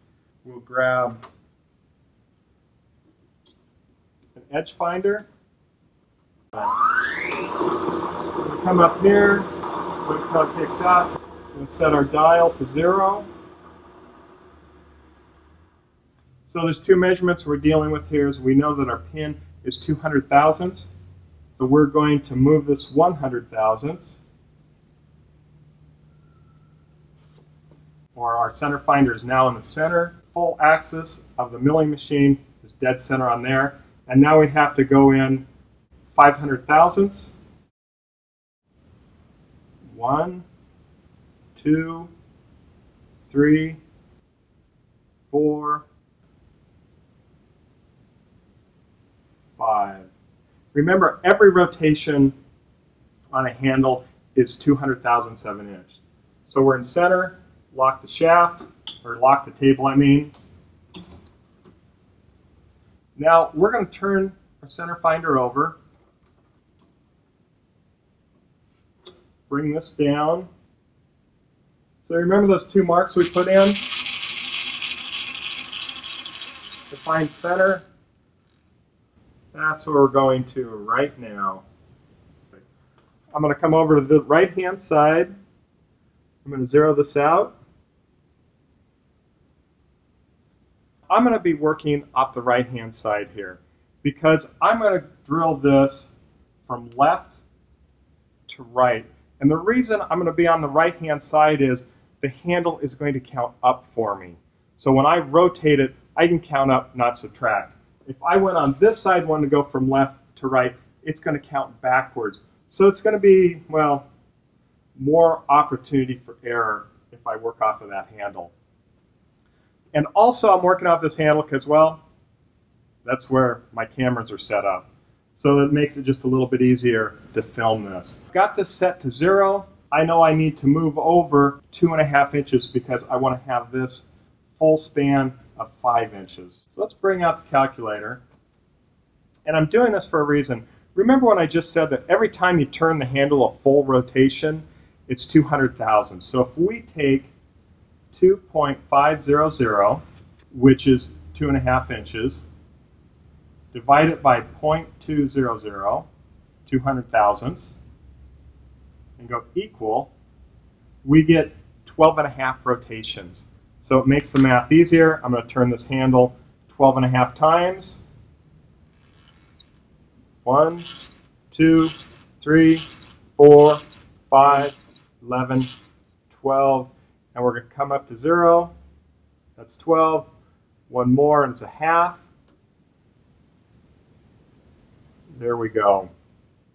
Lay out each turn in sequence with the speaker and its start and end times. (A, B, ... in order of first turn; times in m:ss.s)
0:00.4-0:01.2 A
0:04.3-0:05.2 A
0:08.4-0:09.5 A
0:10.0-0:13.3 A
0:16.5-0:20.9 A
0:21.6-0:24.2 A
0:28.1-0:35.4 A
0:36.1-0:37.3 A
0:39.8-0:40.4 A
0:41.6-0:42.1 A
0:43.3-0:43.8 A
0:45.3-0:45.8 A
0:49.6-0:50.1 A
0:50.7-0:52.3 A
0:53.3-1:00.3 A
1:03.2-1:05.8 A
1:09.5-1:10.5 A
1:12.0-1:14.0 A
1:16.9-1:17.8 A
1:19.5-1:21.6 A
1:23.3-1:25.3 A
1:26.4-1:27.5 A
1:31.1-1:36.1 A
1:36.7-1:37.4 A
1:38.5-1:54.1 A
1:55.0-1:58.5 A
1:59.9-2:02.0 A
2:03.0-2:18.2 A
2:19.4-2:27.3 A
2:28.1-2:32.4 A
2:33.7-2:36.1 A
2:36.6-2:37.7 A
2:39.2-2:40.1 A
2:41.0-2:48.0 A
2:50.4-2:50.8 A
2:51.5-2:52.8 A
2:53.4-2:55.7 A
2:56.3-2:58.7 A
2:59.6-3:00.3 A
3:00.9-3:02.2 A
3:05.4-3:06.1 A